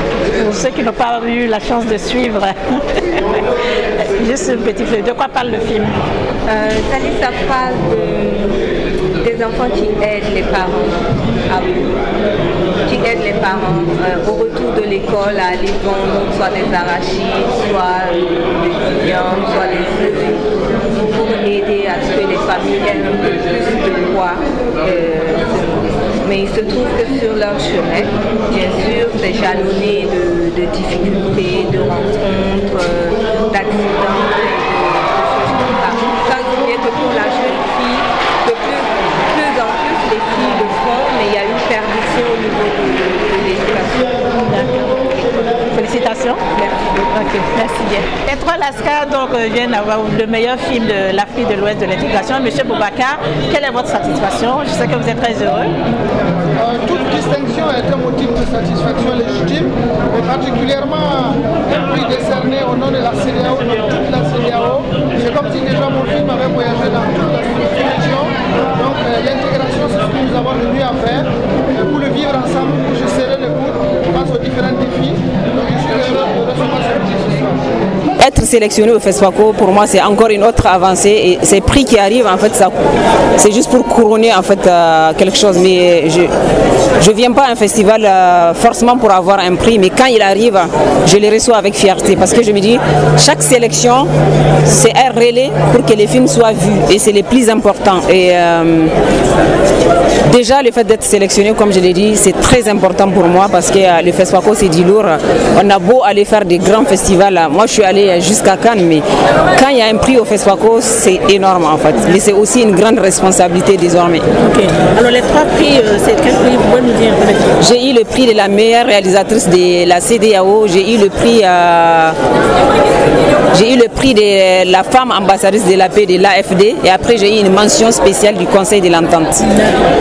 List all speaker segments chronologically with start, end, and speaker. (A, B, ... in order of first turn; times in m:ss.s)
0:00.3-0:03.4 A
0:04.0-0:06.0 A
0:06.5-0:12.0 B
0:12.8-0:44.2 B
0:44.3-0:45.0 A
0:45.2-0:45.7 B
0:45.7-0:46.4 A
0:46.5-0:46.9 B
0:47.0-0:55.7 A
0:56.6-1:17.6 C
1:18.2-1:22.7 D
1:23.4-1:26.3 D
1:27.0-1:34.1 D
1:34.6-1:38.9 D
1:40.2-1:54.2 D
1:54.4-1:57.6 A
1:57.6-2:02.2 D
2:03.5-2:09.4 D
2:09.5-2:09.8 A